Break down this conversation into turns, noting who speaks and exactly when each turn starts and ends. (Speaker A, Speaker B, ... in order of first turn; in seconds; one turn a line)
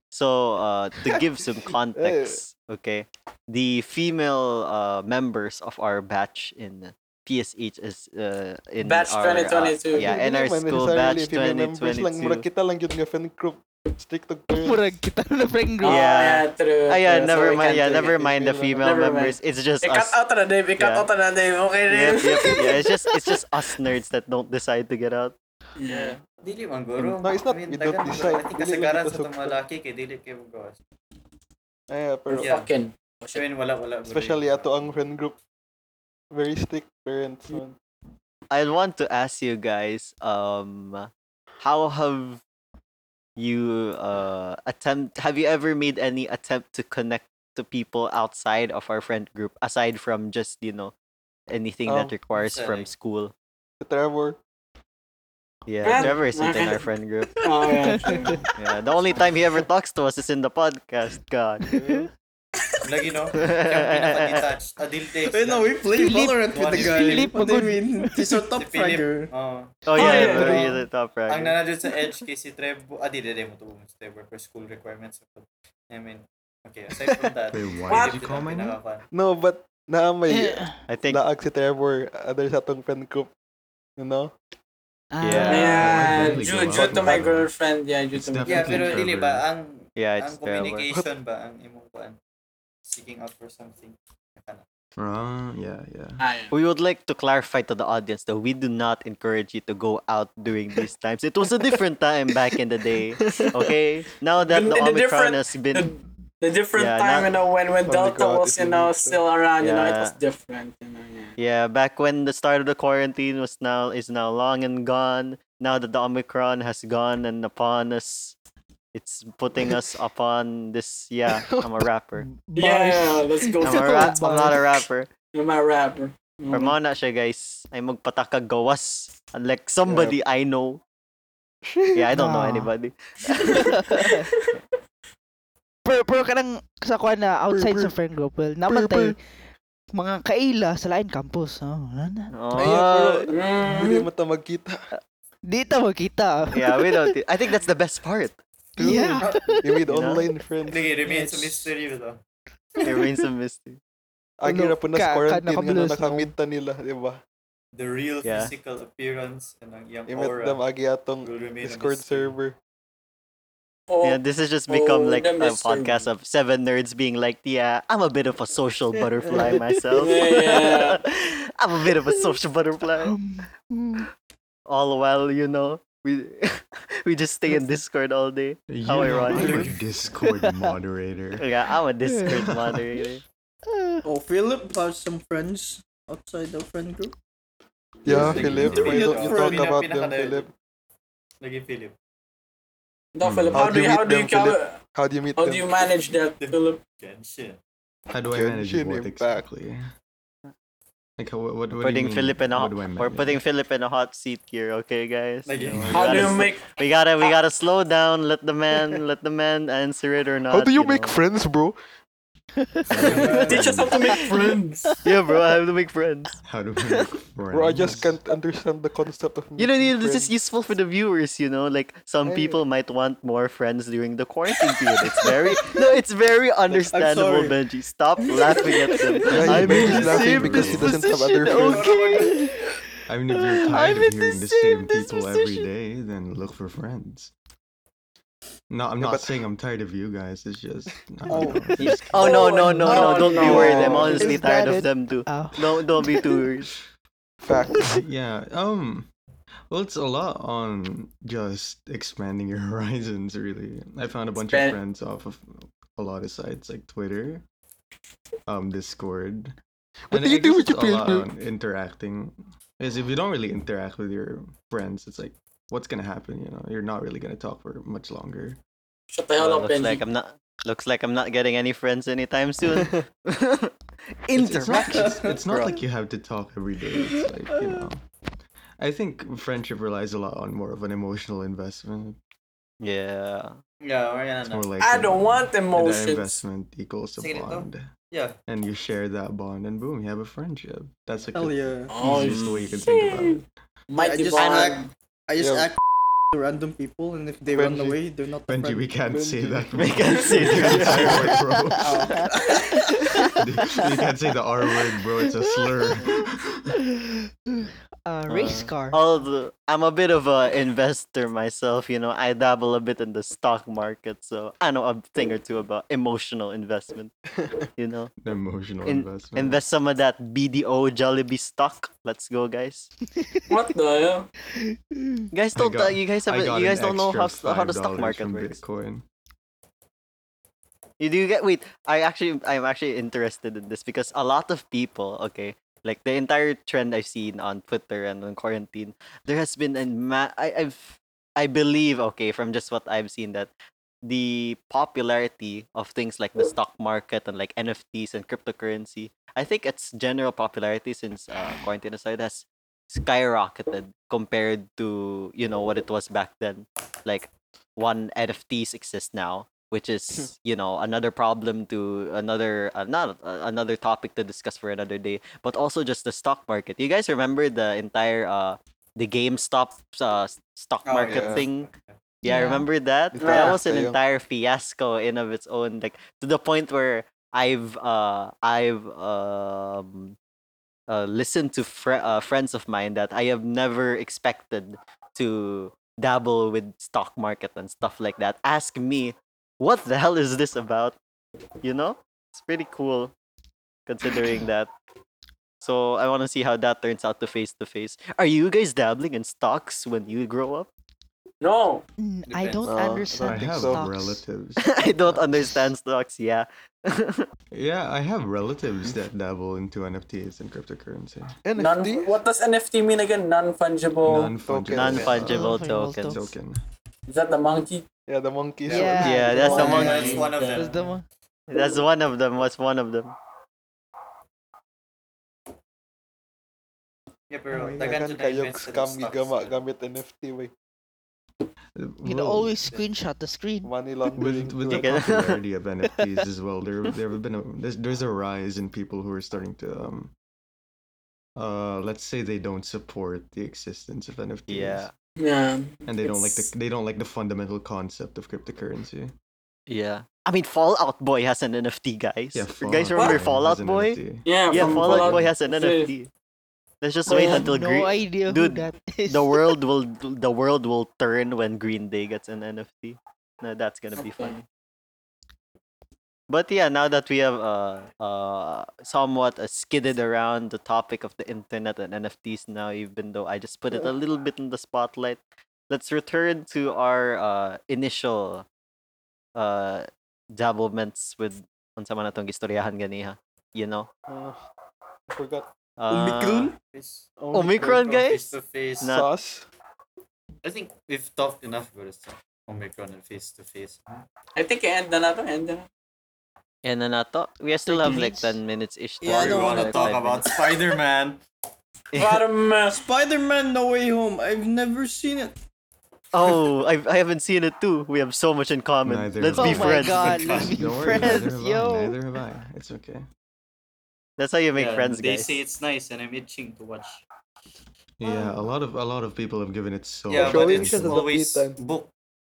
Speaker A: 0.1-12.5
Speaker B: 1.9-2.4
Speaker C: 8.8-10.1
Speaker B: 9.9-14.9
Speaker D: 14.6-16.0
Speaker C: 15.8-18.0
Speaker A: 15.8-20.1
Speaker B: 17.2-18.8
Speaker C: 18.8-22.7
Speaker A: 20.8-21.1
Speaker A: 21.9-25.3
Speaker D: 22.6-23.3
Speaker C: 25.8-26.2
Speaker E: 26.4-30.8
Speaker B: 27.0-29.6
Speaker B: 31.9-32.5
Speaker C: 32.3-33.4
Speaker E: 32.4-32.7
Speaker E: 33.3-34.7
Speaker B: 34.0-35.3
Speaker B: 36.3-37.8
Speaker A: 38.5-41.1
Speaker A: 41.6-42.4
Speaker A: 43.4-50.9
Speaker A: 51.5-53.3
Speaker B: 51.9-52.1
Speaker E: 52.4-52.9
Speaker B: 53.8-54.4
Speaker A: 55.7-57.4
Speaker C: 55.8-56.9
Speaker C: 57.4-58.4
Speaker D: 57.8-58.4
Speaker A: 58.6-61.6
Speaker D: 61.7-62.1
Speaker B: 61.8-62.0
Speaker E: 62.8-67.3
Speaker A: 63.3-64.5
Speaker F: 65.2-69.3
Speaker D: 65.9-68.5
Speaker E: 68.5-70.7
Speaker A: 69.8-71.6
Speaker C: 69.9-70.7
Speaker B: 70.3-70.6
Speaker E: 71.3-79.0
Speaker G: 77.5-78.8
Speaker C: 77.9-78.2
Speaker B: 79.1-83.3
Speaker D: 80.3-80.8
Speaker A: 80.9-81.2
Speaker B: 84.0-84.3
Speaker D: 85.1-86.3
Speaker A: 85.2-86.0
Speaker C: 85.5-89.0
Speaker G: 85.8-87.5
Speaker G: 88.1-89.4
Speaker E: 88.5-92.2
Speaker A: 90.0-90.9
Speaker E: 92.8-94.6
Speaker G: 95.0-96.2
Speaker C: 96.2-96.5
Speaker A: 96.5-105.9
Speaker C: 104.5-111.3
Speaker A: 106.7-107.3
Speaker B: 107.9-109.2
Speaker A: 109.6-110.2
Speaker A: 111.4-118.3
Speaker A: 118.9-122.2
Speaker B: 121.3-121.7
Speaker D: 122.2-124.8
Speaker C: 122.5-124.2
Speaker A: 123.6-125.1
Speaker C: 125.3-126.7
Speaker A: 126.5-130.8
Speaker B: 129.8-130.2
Speaker B: 131.7-132.0
Speaker A: 131.9-133.8
Speaker D: 132.1-132.7
Speaker D: 133.5-134.2
Speaker D: 135.8-139.2
Speaker B: 137.5-137.9
Speaker B: 138.7-139.1
Speaker D: 139.9-142.3
Speaker A: 142.3-143.3
Speaker B: 142.5-144.8
Speaker C: 143.3-144.1
Speaker D: 145.4-147.1
Speaker A: 146.5-148.4
Speaker D: 148.8-149.7
Speaker B: 148.8-150.9
Speaker E: 149.2-149.7
Speaker A: 149.8-150.3
Speaker E: 150.6-152.2
Speaker D: 151.0-151.7
Speaker A: 152.8-153.8
Speaker B: 154.4-157.2
Speaker D: 154.4-156.3
Speaker E: 157.8-160.6
Speaker A: 158.2-158.5
Speaker B: 160.1-162.6
Speaker E: 161.2-162.3
Speaker C: 163.9-166.0
Speaker A: 164.0-173.1
Speaker B: 169.3-169.5
Speaker C: 169.9-171.0
Speaker D: 173.0-174.0
Speaker A: 174.7-179.7
Speaker G: 178.7-181.4
Speaker E: 179.3-179.7
Speaker D: 180.2-180.7
Speaker A: 181.3-183.2
Speaker D: 182.0-182.4
Speaker G: 182.3-182.8
Speaker D: 183.7-184.0
Speaker F: 184.0-187.1
Speaker B: 188.0-190.5
Speaker G: 188.1-189.1
Speaker F: 188.1-189.7
Speaker E: 188.1-190.5
Speaker E: 191.4-191.9
Speaker C: 193.1-194.8
Speaker G: 193.2-193.8
Speaker B: 193.5-195.6
Speaker C: 195.3-196.8
Speaker E: 196.4-197.6
Speaker G: 198.1-199.8
Speaker B: 198.3-199.4
Speaker G: 201.2-203.4
Speaker A: 201.7-211.2
Speaker E: 205.4-206.3
Speaker G: 205.7-206.2
Speaker C: 205.9-206.6
Speaker B: 210.5-211.7
Speaker D: 212.6-213.2
Speaker G: 212.9-213.9
Speaker E: 213.0-213.7
Speaker A: 213.1-213.7
Speaker C: 213.1-214.9
Speaker A: 215.0-217.1
Speaker G: 216.4-218.2
Speaker B: 217.5-220.3
Speaker A: 219.6-230.7
Speaker B: 222.2-222.6
Speaker F: 226.7-227.6
Speaker D: 228.5-235.7
Speaker B: 229.3-232.3
Speaker G: 229.5-231.0
Speaker C: 231.8-232.3
Speaker G: 233.1-237.3
Speaker G: 238.7-242.1
Speaker B: 239.0-239.4
Speaker F: 241.3-241.7
Speaker D: 241.3-246.4
Speaker A: 241.8-246.7
Speaker C: 242.2-244.2
Speaker B: 243.4-244.2
Speaker B: 247.4-247.9
Speaker G: 247.8-249.1
Speaker G: 249.7-257.4
Speaker C: 254.4-254.8
Speaker G: 258.5-259.6
Speaker B: 260.1-261.3
Speaker G: 260.1-268.6
Speaker C: 269.1-270.0
Speaker A: 269.4-273.7
Speaker A: 274.2-275.8
Speaker G: 274.4-278.0
Speaker G: 278.8-282.2
Speaker A: 282.8-283.6
Speaker E: 283.8-284.7
Speaker G: 284.5-287.9
Speaker C: 284.8-286.4
Speaker E: 287.2-288.4
Speaker G: 288.5-293.4
Speaker F: 291.3-292.0
Speaker C: 291.9-294.9
Speaker A: 292.2-292.7
Speaker F: 293.9-295.8
Speaker A: 294.4-294.8
Speaker B: 295.4-295.7
Speaker F: 296.3-298.9
Speaker B: 297.5-298.0
Speaker G: 298.5-302.0
Speaker B: 299.0-300.6
Speaker A: 299.7-301.4
Speaker F: 300.5-301.1
Speaker D: 301.8-304.1
Speaker F: 301.8-302.6
Speaker A: 302.5-303.2
Speaker G: 303.4-306.6
Speaker D: 305.2-309.1
Speaker A: 308.3-317.1
Speaker A: 317.8-318.1
Speaker G: 318.2-319.6
Speaker A: 318.8-322.9
Speaker C: 323.5-324.3
Speaker D: 324.7-325.2
Speaker A: 325.3-328.6
Speaker G: 325.5-329.0
Speaker A: 331.0-343.5
Speaker A: 344.0-371.7
Speaker E: 370.8-371.9
Speaker B: 371.1-371.4
Speaker A: 372.2-380.1
Speaker D: 372.2-372.6
Speaker B: 373.1-374.0
Speaker C: 373.2-373.6
Speaker A: 380.9-390.9
Speaker A: 391.6-393.1
Speaker A: 393.9-394.7
Speaker A: 395.6-400.7
Speaker C: 401.4-401.8
Speaker D: 402.0-404.2
Speaker E: 402.3-402.7
Speaker B: 402.6-403.8
Speaker G: 403.2-404.6
Speaker A: 404.6-407.2
Speaker D: 405.0-405.7
Speaker G: 407.5-411.3
Speaker B: 411.4-412.2
Speaker C: 411.6-414.3
Speaker G: 414.0-416.6
Speaker B: 414.5-415.2
Speaker A: 414.7-416.2
Speaker D: 415.1-416.2
Speaker C: 417.1-417.9
Speaker B: 418.1-420.2
Speaker E: 418.6-420.9
Speaker D: 418.7-421.0
Speaker A: 418.9-420.2
Speaker C: 419.3-420.7
Speaker A: 421.5-423.1
Speaker E: 427.3-429.6
Speaker F: 427.5-427.9
Speaker B: 427.8-430.5
Speaker G: 431.7-432.5
Speaker D: 432.0-433.7
Speaker B: 433.6-434.9
Speaker G: 434.1-440.1
Speaker A: 434.6-435.4
Speaker G: 441.4-444.9
Speaker A: 444.5-444.9
Speaker C: 445.2-446.5
Speaker G: 445.9-449.1
Speaker A: 449.7-456.1
Speaker G: 452.3-455.3
Speaker C: 452.9-453.2
Speaker C: 454.2-455.9
Speaker A: 456.8-464.4
Speaker D: 457.1-459.6
Speaker C: 457.1-457.4
Speaker C: 463.9-464.4
Speaker A: 466.3-478.4
Speaker A: 479.4-483.9
Speaker B: 484.1-484.4
Speaker B: 485.1-485.5
Speaker A: 485.8-486.5
Speaker F: 485.9-486.6
Speaker E: 486.7-488.9
Speaker B: 487.2-487.9
Speaker A: 487.3-489.1
Speaker B: 488.8-489.5
Speaker E: 490.4-494.0
Speaker C: 494.4-495.7
Speaker A: 496.6-500.4
Speaker D: 497.6-498.4
Speaker F: 499.0-499.9
Speaker E: 499.0-501.2
Speaker A: 501.9-502.2
Speaker C: 501.9-502.8
Speaker F: 502.6-505.3
Speaker A: 506.1-510.2
Speaker G: 508.8-513.1
Speaker D: 509.4-512.0
Speaker E: 509.9-511.2
Speaker A: 514.2-515.4
Speaker E: 514.5-517.0
Speaker G: 518.0-521.0
Speaker D: 518.1-518.4
Speaker E: 520.1-521.9
Speaker B: 520.1-521.6